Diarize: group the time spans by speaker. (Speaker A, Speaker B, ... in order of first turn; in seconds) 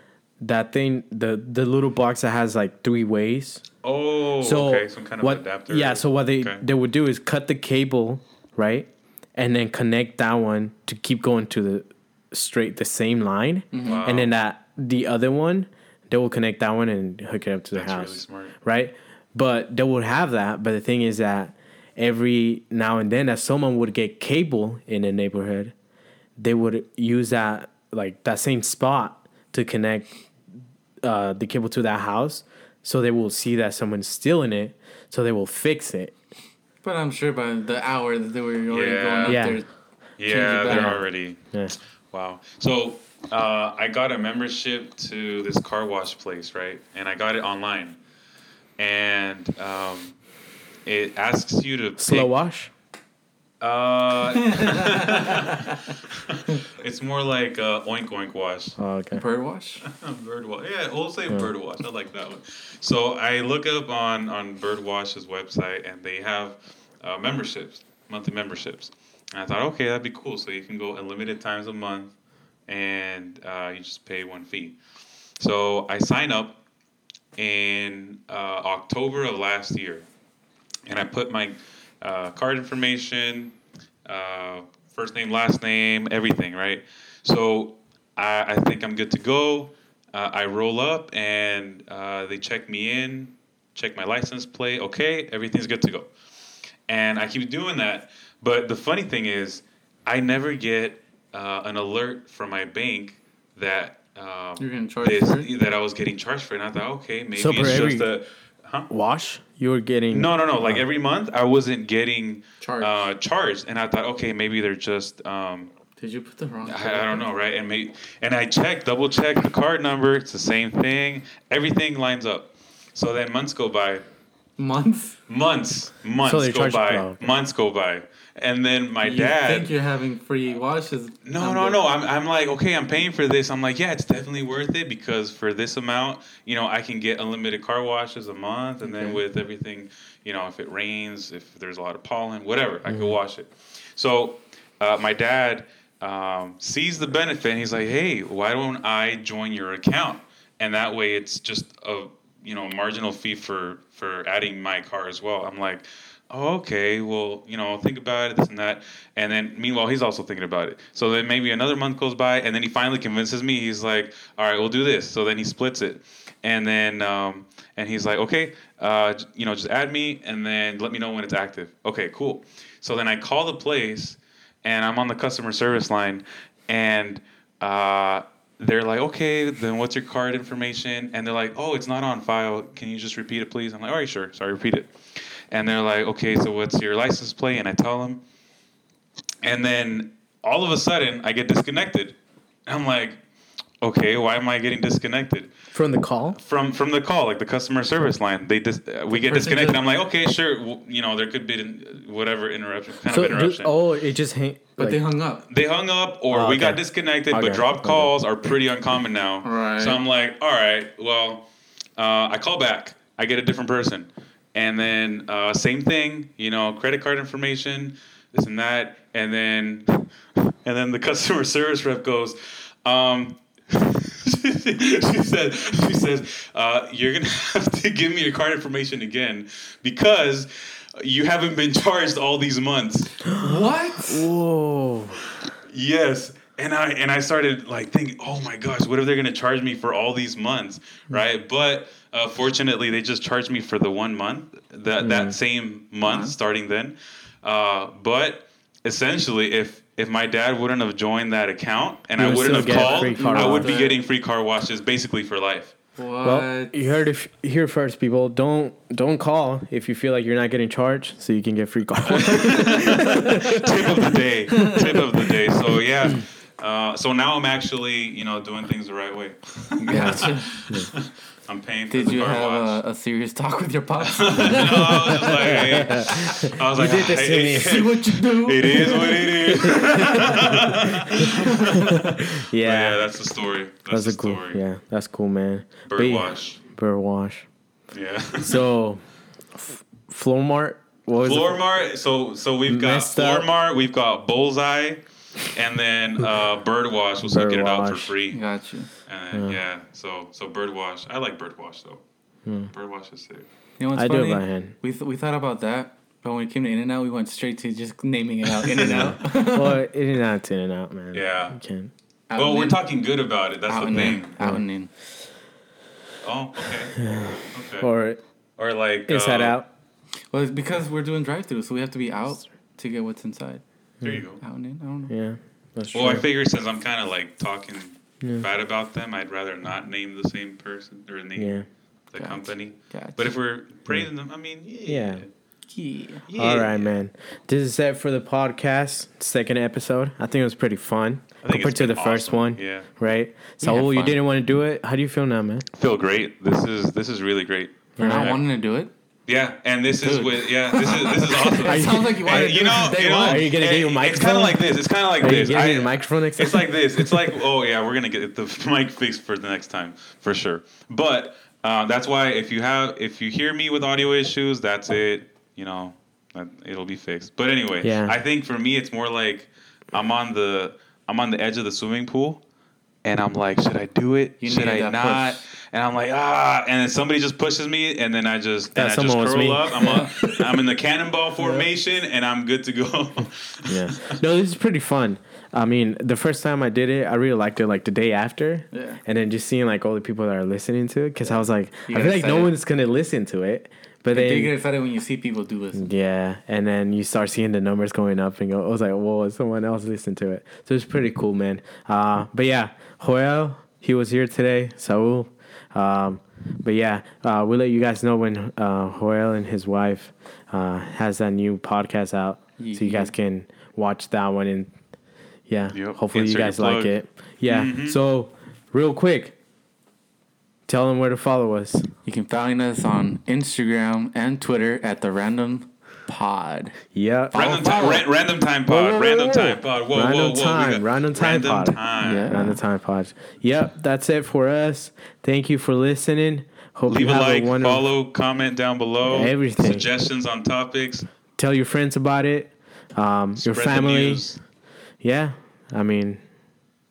Speaker A: 0.4-3.6, 4.4-25.7, 26.4-30.1, 31.0-36.1, 39.2-39.6, 40.7-41.0, 52.0-52.7, 58.8-59.2, 107.3-108.1, 108.9-110.8, 126.2-127.3, 142.9-143.2, 195.7-196.4, 203.1-205.0, 206.3-208.1, 233.3-235.2, 245.0-245.4, 252.2-253.7, 256.2-263.9, 269.9-270.9, 274.7-277.8, 279.6-283.0, 283.9-287.5, 288.4-289.0, 289.6-291.6, 292.7-293.5, 297.2-298.1, 299.3-299.6, 302.4-302.7, 303.9-304.7, 308.8-311.9, 313.9-314.6, 317.0-318.2, 319.1-319.7, 325.1-326.2, 328.2-328.4, 331.4-331.6, 334.9-335.2, 336.4-345.7, 348.0-348.4, 351.6-354.6, 355.2-357.2, 367.8-368.2, 378.8-380.5, 383.7-394.5, 395.7-414.7, 415.5-419.3, 420.7-421.9, 426.9-427.9, 428.7-437.9, 439.0-439.9, 441.4-444.2, 445.0-446.2
Speaker B: 3.8-6.6, 13.8-14.3, 17.7-18.5, 38.7-39.4, 40.2-41.4, 42.1-48.0, 48.8-50.1, 50.8-52.3, 53.6-58.8, 59.8-72.1, 72.7-74.8, 75.4-76.6, 77.3-80.1, 80.9-83.5, 84.1-96.1, 96.9-108.9, 110.1-115.7, 116.6-124.0, 125.3-129.7, 131.2-188.2, 189.4-193.2, 193.8-195.5, 196.3-203.7, 205.5-211.4, 212.0-233.2, 235.7-255.7, 262.0-272.8, 274.0-284.6, 285.9-286.6, 287.9-288.6, 291.2-298.4, 299.1-302.0, 302.7-303.5, 308.6-309.1, 311.1-311.6, 312.3-314.3, 316.2-317.9, 318.6-319.6, 324.0-324.4, 325.9-331.6, 332.1-335.3, 336.3-336.9, 341.4-342.9, 345.7-348.4, 349.3-372.4, 373.0-384.2, 415.7-416.9, 417.4-418.0, 427.3-432.3, 436.9-441.1, 443.4-444.4
Speaker C: 13.7-14.0, 36.8-39.6, 40.2-41.0, 54.5-55.8, 59.1-59.8, 104.6-105.5, 112.6-113.1, 116.0-117.2, 124.6-125.2, 129.0-131.8, 138.8-139.2, 199.1-199.8, 204.8-205.4, 209.4-210.0, 233.3-234.3, 246.0-246.3, 252.4-254.0, 256.0-256.8, 264.6-265.0, 269.8-270.6, 271.9-275.9, 277.3-280.6, 281.1-282.2, 298.3-298.9, 303.8-309.8, 312.3-312.8, 313.7-314.9, 320.3-323.6, 324.4-325.1, 332.1-333.3, 335.7-336.2, 343.6-344.2, 348.0-348.9, 350.0-353.5, 374.4-375.4, 381.4-381.7, 388.7-389.0, 391.2-392.5, 394.1-395.9, 412.6-413.1, 422.1-426.8, 427.3-428.1, 432.0-432.6